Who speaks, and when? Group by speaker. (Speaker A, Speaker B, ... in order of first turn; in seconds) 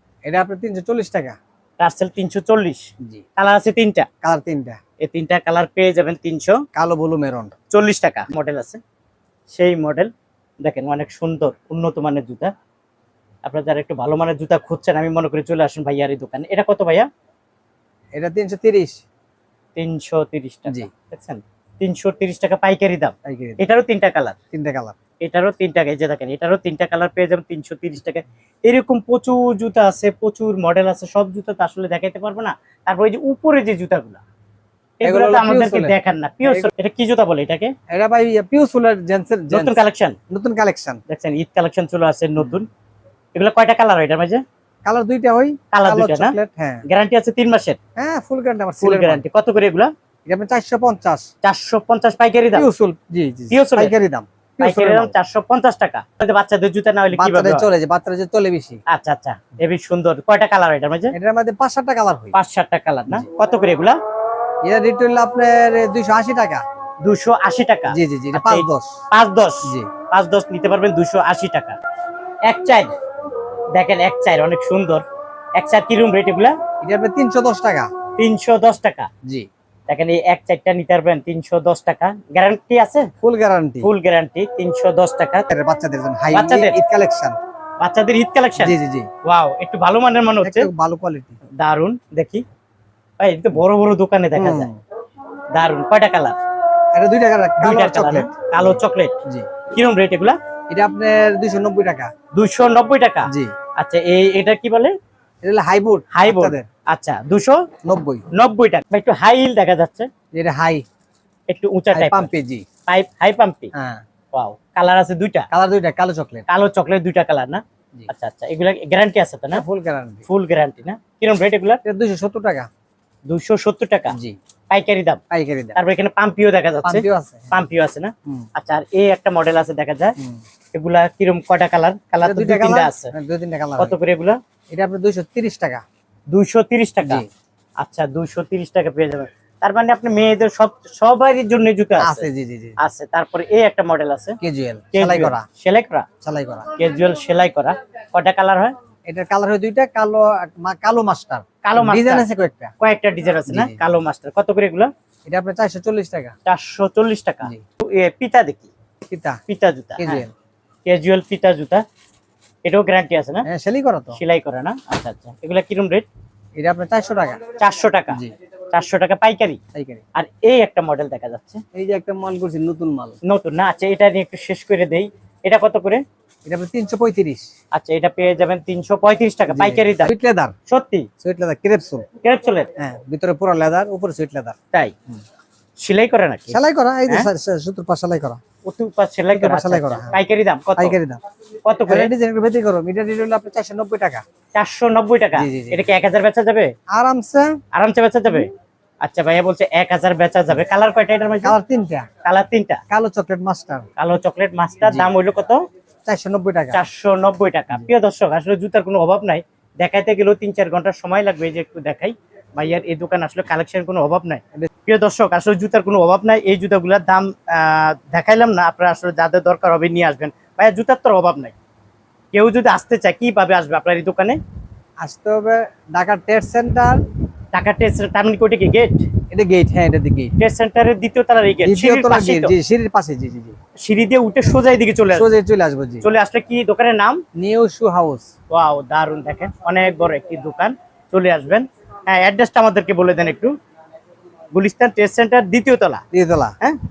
Speaker A: 0.2-1.4, 4.2-4.8, 6.7-7.5, 18.1-19.0, 23.2-23.6, 24.5-24.9, 35.0-36.7, 37.9-41.0, 44.8-46.8, 48.0-49.2, 50.3-51.3, 52.5-55.1, 57.1-58.8, 61.1-62.4, 64.6-66.6, 67.9-68.9, 69.6-69.9, 76.8-77.9, 83.2-83.9, 85.5-87.4, 88.6-89.1, 90.4-91.3, 94.3-94.8, 96.9-99.5, 100.7-102.1, 103.2-103.5, 105.4-106.7, 107.8-108.2, 110.3-110.8, 111.9-112.7, 113.7-114.0, 115.5-116.5, 119.5-120.2, 121.8-122.7, 124.1-124.4, 125.3-125.8, 126.8-127.6, 132.2-133.9, 134.7-135.8, 137.0-137.3, 142.0-142.8, 144.4-145.4, 146.2-146.7, 149.1-152.7, 153.5-153.8, 155.3-156.3, 159.1-159.4, 160.0-160.3, 163.4-164.2, 166.6-167.4, 169.7-170.0, 171.7-173.2, 176.4-177.4, 179.5-180.5, 181.2-182.0, 182.8-184.6, 186.5-188.4, 189.3-190.2, 190.8-191.2, 191.9-194.2, 195.4-195.9, 196.9-197.6, 201.4-202.1, 202.9-203.8, 204.8-205.1, 206.1-206.8, 225.0-227.0, 229.3-230.3, 231.6-233.6, 235.1-236.1, 237.4-238.3, 246.1-246.6
Speaker B: 1.8-2.9, 3.4-4.0, 5.0-6.6, 7.7-8.8, 9.5-10.1, 10.6-12.5, 13.4-17.1, 19.8-24.4, 25.2-34.2, 35.0-37.7, 39.5-40.1, 41.1-42.7, 43.3-44.4, 45.7-46.4, 46.9-47.8, 48.8-49.9, 51.4-52.7, 53.5-53.9, 54.6-57.6, 58.9-61.1, 62.3-64.0, 67.0-71.8, 72.4-72.9, 73.7-75.0, 75.5-76.5, 78.2-79.1, 79.9-83.1, 83.8-85.5, 86.3-86.8, 87.8-90.7, 91.6-92.4, 93.2-94.7, 95.5-96.3, 97.6-99.2, 99.7-100.4, 102.3-104.9, 106.1-107.6, 108.3-110.1, 111.5-112.3, 112.9-113.7, 114.3-115.5, 116.5-119.6, 120.3-121.8, 123.3-124.2, 124.7-125.2, 125.7-130.2, 130.7-133.1, 133.8-134.4, 136.3-137.2, 137.8-142.3, 142.8-144.4, 144.9-146.1, 146.8-148.7, 151.6-152.3, 152.8-154.9, 156.4-158.7, 159.5-160.2, 160.8-161.8, 162.6-163.4, 164.1-166.1, 167.6-169.6, 170.1-171.6, 173.2-176.0, 177.7-180.1, 180.7-181.1, 182.2-182.7, 185.8-187.3, 188.6-191.0, 191.6-192.1, 194.5-196.7, 197.7-198.5, 199.0-201.5, 202.2-202.8, 204.0-205.6, 206.7-221.5, 222.3-224.4, 227.5-229.1, 230.4-232.5, 233.8-235.3, 236.0-237.2, 238.5-243.5, 244.5-246.0